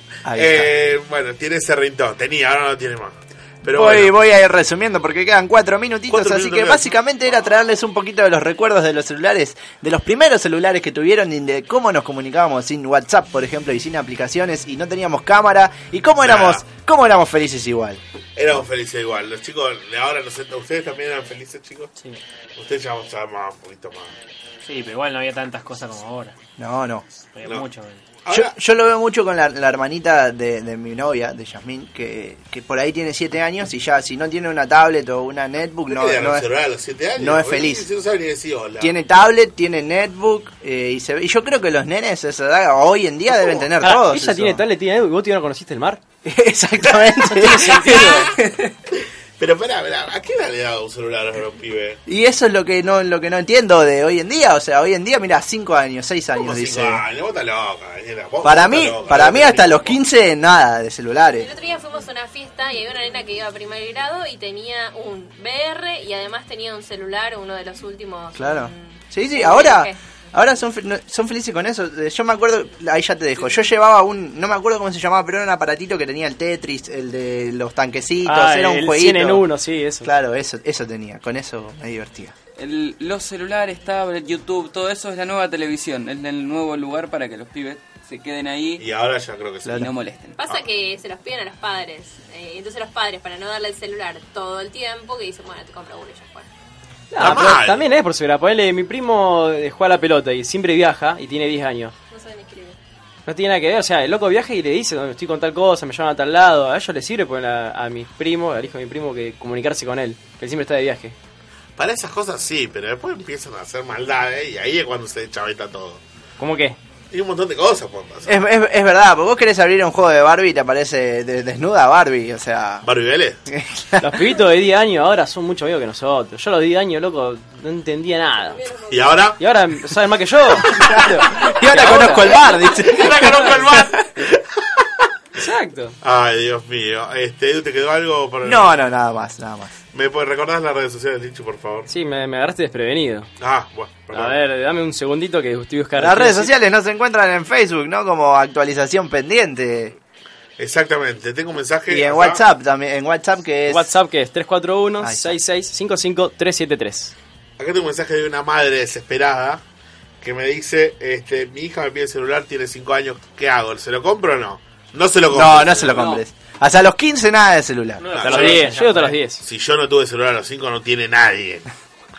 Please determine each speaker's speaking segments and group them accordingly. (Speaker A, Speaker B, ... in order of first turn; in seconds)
Speaker A: 0.2-0.7, 3.6-18.0, 26.6-27.1, 28.3-36.5, 37.2-37.9, 38.8-44.6, 46.2-48.7, 52.1-57.0, 58.4-61.5, 68.3-79.5, 80.0-82.3, 118.3-122.9, 123.5-124.1, 130.7-134.1, 138.4-139.8, 146.0-149.9, 151.9-153.9, 155.0-155.4, 165.3-168.1
Speaker B: 0.3-4.1, 6.1-7.0, 16.2-16.7, 18.4-21.9, 22.6-24.1, 28.3-28.6, 35.9-39.0, 43.3-43.5, 47.2-48.3, 48.9-52.0, 56.3-60.0, 88.8-89.9, 97.2-97.9, 111.8-116.0, 117.1-118.4, 122.8-123.4, 128.9-129.4, 130.5-134.9, 136.0-138.8, 139.9-141.9, 143.4-144.4, 150.6-152.4, 157.6-159.6, 160.2-166.1, 168.1-168.8, 169.4-171.7
Speaker C: 24.6-26.4, 27.4-28.1, 168.0-169.2
Speaker D: 43.8-46.0, 47.2-48.3, 78.2-80.1, 97.1-101.9, 103.3-111.1, 116.4-116.8, 124.0-128.6, 129.4-132.6, 133.2-133.4, 135.4-135.9, 141.9-143.3, 144.1-146.5, 153.7-157.1, 168.2-169.4
Speaker E: 61.3-70.0, 90.4-96.5, 102.1-102.8, 128.5-129.3
Speaker F: 82.6-88.8, 89.7-90.3, 165.9-166.2